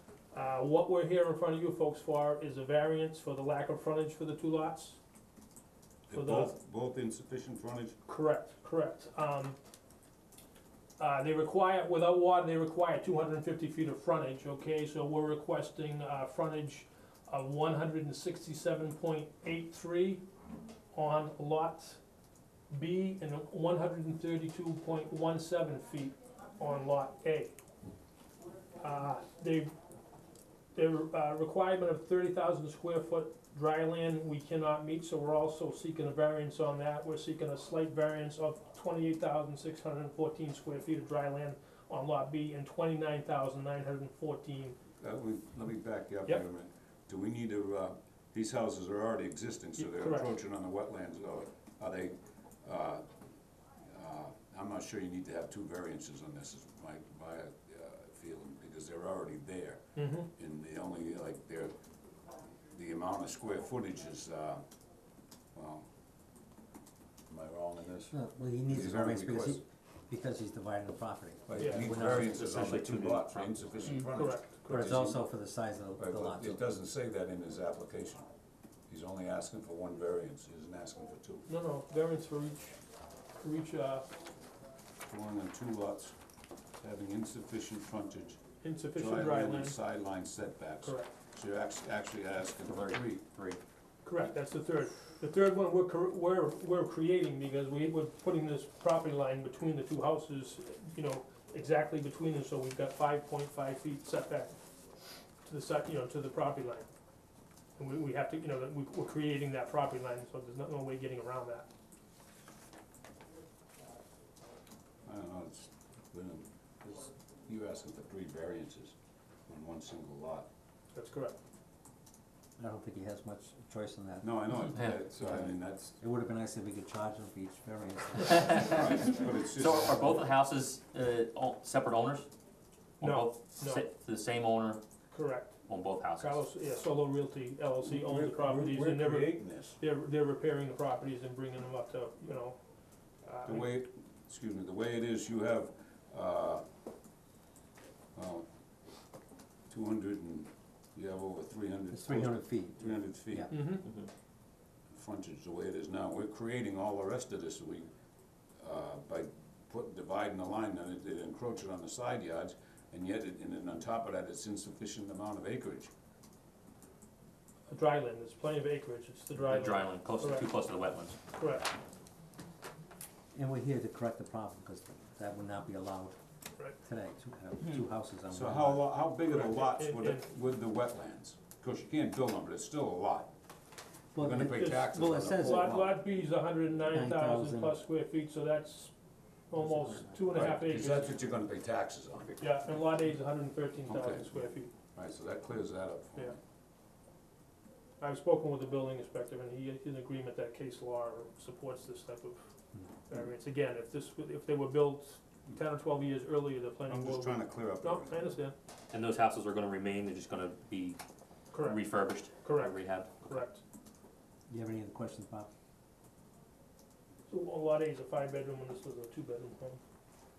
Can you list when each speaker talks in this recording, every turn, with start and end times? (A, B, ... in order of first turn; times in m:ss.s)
0:00.3-0:05.0 A
0:06.1-0:08.0 B
0:06.1-0:06.5 A
0:08.0-0:09.6 A
0:11.0-0:20.2 A
0:20.9-0:22.0 A
0:22.7-0:27.6 A
0:28.8-0:29.7 A
0:30.7-0:44.8 A
0:45.0-0:53.0 B
0:49.8-0:50.3 A
0:53.9-1:01.7 B
1:00.0-1:00.3 A
1:02.7-1:04.6 B
1:05.5-1:05.8 B
1:07.3-1:08.1 B
1:08.1-1:12.4 C
1:08.7-1:09.6 B
1:11.5-1:15.2 B
1:11.6-1:11.9 A
1:11.9-1:13.9 D
1:14.1-1:15.0 A
1:14.7-1:16.7 C
1:16.0-1:18.3 B
1:18.9-1:21.5 B
1:21.5-1:22.8 A
1:23.4-1:24.1 A
1:25.0-1:26.1 B
1:26.8-1:28.4 B
1:28.6-1:29.8 A
1:28.9-1:33.2 B
1:30.8-1:31.1 A
1:32.6-1:33.6 D
1:34.0-1:44.6 A
1:45.4-1:46.9 A
1:47.8-1:51.7 A
1:55.0-1:58.9 B
1:59.5-2:00.5 B
2:00.9-2:01.4 A
2:02.6-2:09.1 C
2:04.2-2:06.0 B
2:08.5-2:10.3 B
2:09.2-2:12.3 D
2:13.0-2:14.8 D
2:13.0-2:13.8 A
2:15.1-2:15.6 A
2:15.7-2:16.4 D
2:16.2-2:22.6 A
2:17.8-2:19.8 B
2:23.2-2:23.7 A
2:23.4-2:26.6 B
2:28.1-2:28.4 B
2:29.7-2:33.5 B
2:31.9-2:33.7 C
2:33.5-2:33.8 A
2:33.8-2:34.1 D
2:34.9-2:37.9 B
2:38.6-2:45.9 B
2:47.7-2:50.5 A
2:49.4-2:51.2 D
2:51.3-2:51.7 A
2:53.3-2:56.2 C
2:56.8-2:58.9 C
2:58.3-3:03.3 B
2:59.3-3:00.3 A
3:04.1-3:05.8 C
3:04.2-3:06.0 B
3:04.5-3:04.8 A
3:05.3-3:08.9 A
3:06.9-3:07.8 C
3:09.5-3:11.1 A
3:09.6-3:10.6 C
3:10.3-3:12.4 B
3:12.4-3:14.7 A
3:13.9-3:16.4 B
3:18.0-3:22.5 A
3:23.1-3:28.5 A
3:26.8-3:28.2 B
3:28.9-3:31.0 D
3:31.5-3:33.6 A
3:31.5-3:33.4 D
3:34.5-3:35.5 C
3:37.3-3:39.8 A